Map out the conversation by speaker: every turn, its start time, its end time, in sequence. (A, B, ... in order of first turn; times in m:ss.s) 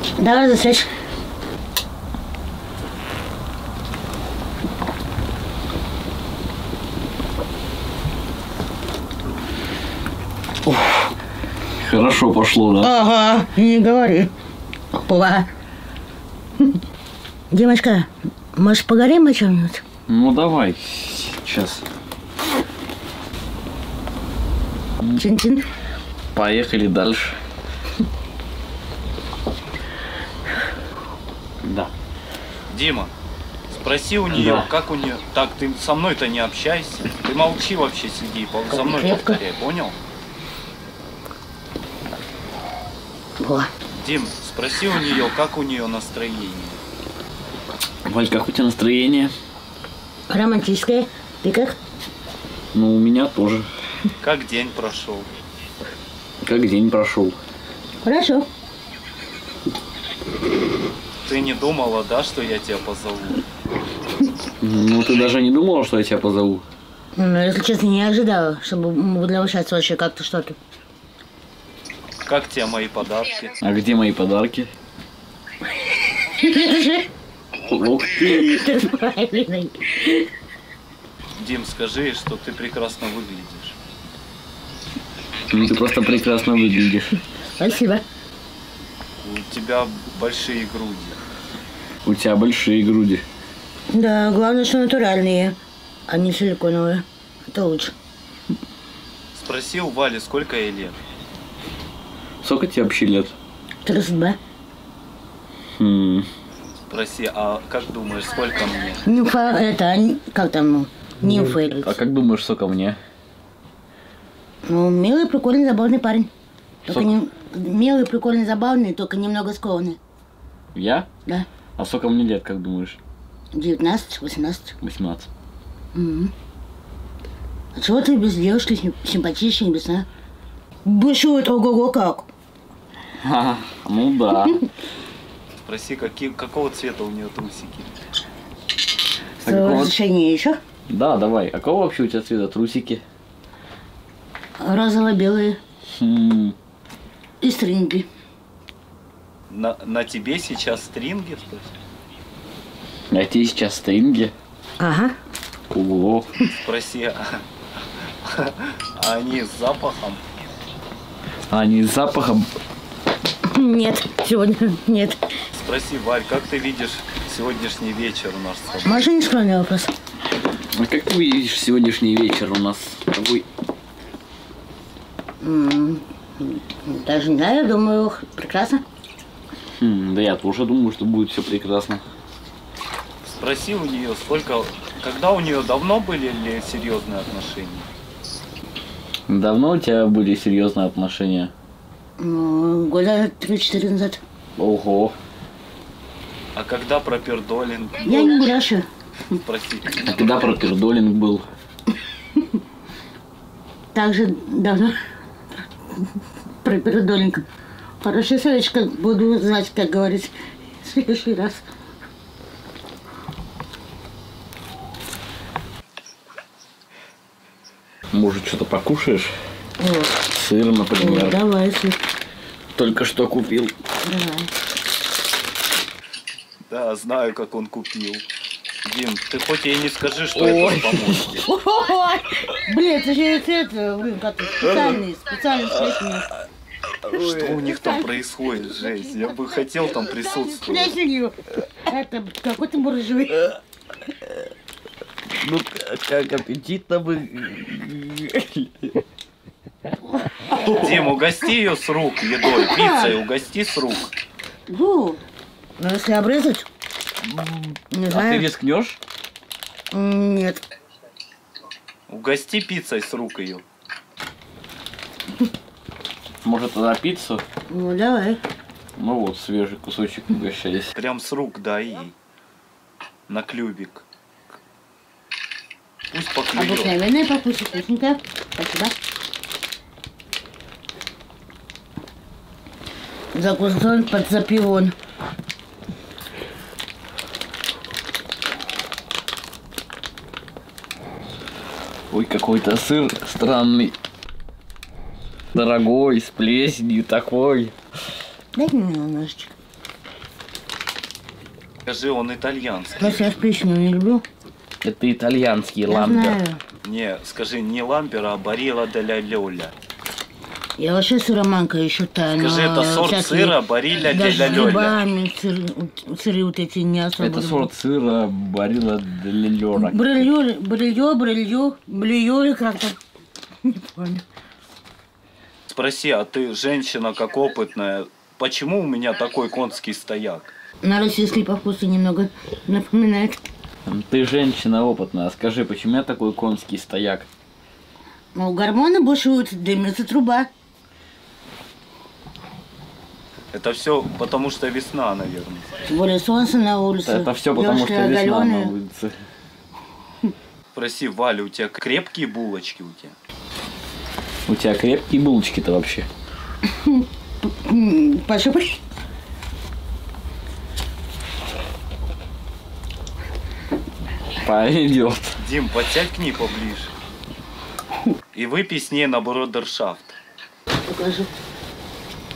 0:00.2-0:00.9 A
0:10.6-0:11.1 B
0:11.8-0:12.9 B
0:12.8-0:14.3 A
0:14.9-0:15.5 A
0:17.5-0:19.8 A
0:20.1-0:21.8 B
0:25.2-0:25.6 A
0:26.3-0:27.4 B
0:31.6-0:31.9 B
0:32.7-0:33.1 C
0:33.7-0:40.0 C
0:34.3-0:34.7 B
0:38.7-0:39.4 A
0:43.4-0:43.7 A
0:43.9-0:46.8 C
0:48.0-0:49.3 B
0:50.3-0:51.8 A
0:52.7-0:53.7 B
0:54.2-0:55.3 C
0:56.4-0:57.4 B
0:58.0-0:58.5 A
1:01.2-1:03.4 C
1:04.6-1:06.6 B
1:07.2-1:10.6 A
1:12.2-1:13.6 C
1:13.6-1:14.7 B
1:16.3-1:17.1 A
1:17.7-1:18.7 B
1:18.1-1:20.3 A
1:21.4-1:23.8 C
1:25.5-1:27.2 B
1:27.6-1:28.0 A
1:29.2-1:31.2 C
1:32.0-1:33.2 B
1:33.9-1:35.6 A
1:36.1-1:37.9 A
1:39.3-1:41.0 C
1:42.4-1:43.3 B
1:43.8-1:44.4 A
1:45.8-1:46.3 B
1:46.9-1:49.0 C
1:49.0-1:52.0 A
1:51.3-1:53.0 B
1:54.6-1:56.3 A
1:56.8-2:00.0 A
2:00.7-2:01.1 B
2:01.8-2:03.0 B
2:03.5-2:04.7 A
2:04.8-2:05.3 B
2:05.9-2:06.3 A
2:07.7-2:10.1 A
2:10.8-2:12.3 A
2:13.2-2:14.6 B
2:15.6-2:18.0 C
2:19.4-2:20.6 A
2:19.4-2:19.9 B
2:20.9-2:23.0 B
2:24.6-2:25.6 A
2:26.0-2:26.5 B
2:27.4-2:28.1 A
2:29.5-2:31.7 C
2:33.1-2:34.3 B
2:34.8-2:35.1 A
2:35.7-2:36.3 B
2:36.5-2:37.4 C
2:38.2-2:40.2 C
2:41.5-2:42.5 B
2:43.4-2:45.2 A
2:45.5-2:49.1 C
2:48.8-2:49.9 A
2:50.7-2:53.4 B
2:55.4-2:58.8 A
2:59.8-3:02.0 B
3:03.2-3:07.9 C
3:09.3-3:11.5 B
3:12.2-3:14.2 A
3:14.6-3:15.1 B
3:16.5-3:18.5 C
3:18.0-3:18.8 A
3:19.3-3:20.5 C
3:20.0-3:21.4 B
3:23.9-3:25.0 A
3:26.6-3:27.4 A
3:28.0-3:31.6 A
3:38.1-3:39.3 B
3:39.8-3:40.2 A
3:40.3-3:41.4 B
3:41.0-3:42.0 A
3:42.8-3:43.7 B
3:44.0-3:44.5 A
3:46.7-3:48.2 C
3:48.8-3:51.4 C
3:50.3-3:51.4 B
3:51.4-3:56.3 A
3:57.0-3:57.6 B
3:57.2-4:00.9 C
3:57.6-3:58.1 A
3:59.9-4:03.5 A
4:05.3-4:09.0 B
4:10.5-4:11.0 B
4:10.7-4:14.1 C
4:12.7-4:13.1 A
4:14.7-4:15.2 A
4:15.8-4:16.7 A
4:17.2-4:19.0 B
4:17.9-4:18.5 A
4:19.9-4:20.6 A
4:22.1-4:23.6 C
4:26.4-4:27.4 B
4:27.7-4:28.4 A
4:29.0-4:30.9 B
4:30.9-4:32.1 C
4:33.3-4:34.0 C
4:36.1-4:37.0 C
4:36.5-4:39.0 A
4:43.3-4:44.9 A
4:52.1-4:53.9 B
4:55.5-4:57.7 B
4:58.5-4:59.5 A
5:01.8-5:03.3 C
5:03.0-5:04.2 A
5:04.8-5:06.4 B
5:05.9-5:06.6 A
5:06.8-5:09.8 C
5:10.8-5:17.7 A
5:12.4-5:15.0 C
5:17.2-5:20.2 B
5:19.7-5:23.0 A
5:23.6-5:24.2 A
5:25.7-5:30.5 C
5:30.8-5:33.4 A
5:33.9-5:37.3 B
5:38.3-5:40.5 A
5:43.5-5:45.8 C
5:45.9-5:48.7 A
5:47.0-5:49.1 B
5:50.7-5:53.2 C
5:54.5-5:56.1 B
5:56.7-5:58.8 A
6:04.4-6:05.4 B
6:05.4-6:06.9 C
6:08.3-6:10.2 C
6:10.8-6:11.3 A